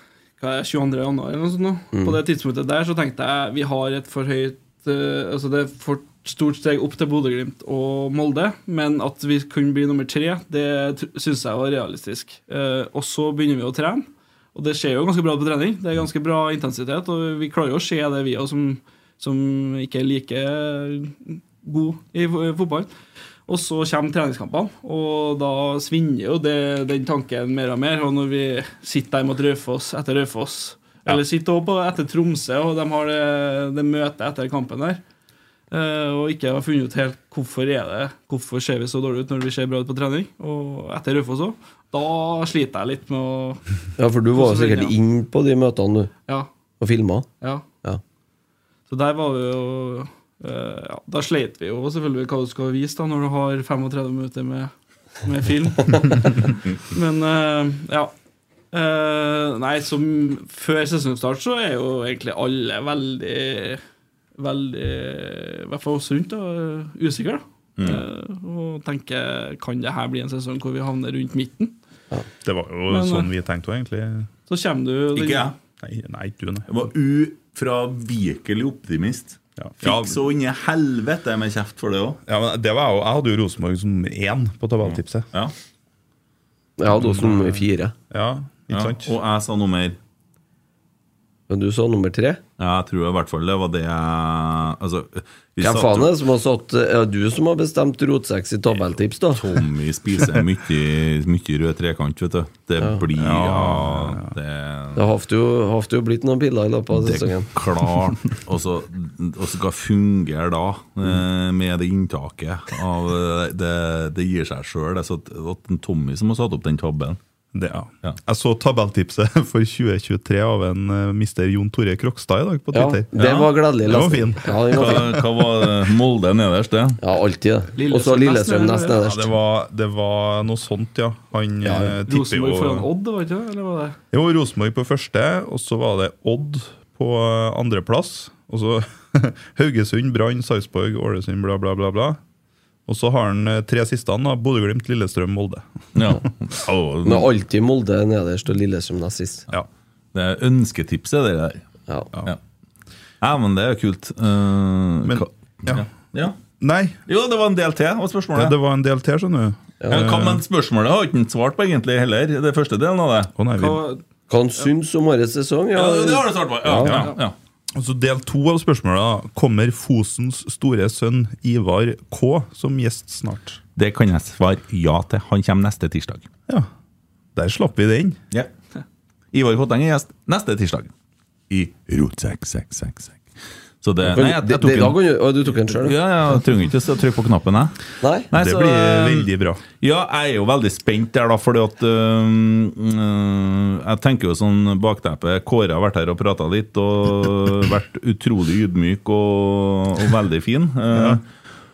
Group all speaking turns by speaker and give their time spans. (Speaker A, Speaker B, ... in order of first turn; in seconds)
Speaker A: 0.4-22.9, 23.5-35.0, 35.7-43.6, 44.3-44.9, 48.9-54.7, 55.2-58.1, 58.7-63.8, 64.4-71.7, 72.9-73.3, 74.5-75.5, 127.8-129.0, 132.1-134.0, 163.6-164.0
Speaker B: 1.9-2.2, 44.0-46.1, 46.8-47.3, 86.8-87.9, 91.5-92.4, 95.6-99.5, 105.0-107.5, 122.7-125.2, 127.0-129.3, 131.6-132.0, 147.0-149.5, 164.3-167.1, 184.1-186.0, 188.0-188.3
Speaker C: 67.8-68.0, 75.1-75.5, 76.7-82.2, 84.8-85.5, 88.7-90.0, 92.6-96.1, 99.3-105.0, 106.9-117.2, 123.2-123.5, 124.7-127.0, 145.9-147.3, 150.1-151.6, 153.2-156.4, 157.1-158.6, 159.9-163.3, 165.7-167.3, 173.8-176.3, 179.3-180.9, 181.5-183.3, 183.8-185.0, 185.5-187.8, 188.3-201.3
Speaker D: 72.4-74.3, 75.8-76.8, 79.6-80.2, 82.3-85.3, 87.0-89.1, 103.1-104.3, 117.5-123.1, 123.8-125.3, 129.0-132.9, 134.1-142.2, 142.9-146.2, 155.1-155.9, 156.6-157.0, 158.3-160.4, 163.4-163.8, 167.8-173.6, 177.3-178.2, 188.3-189.6, 200.9-201.2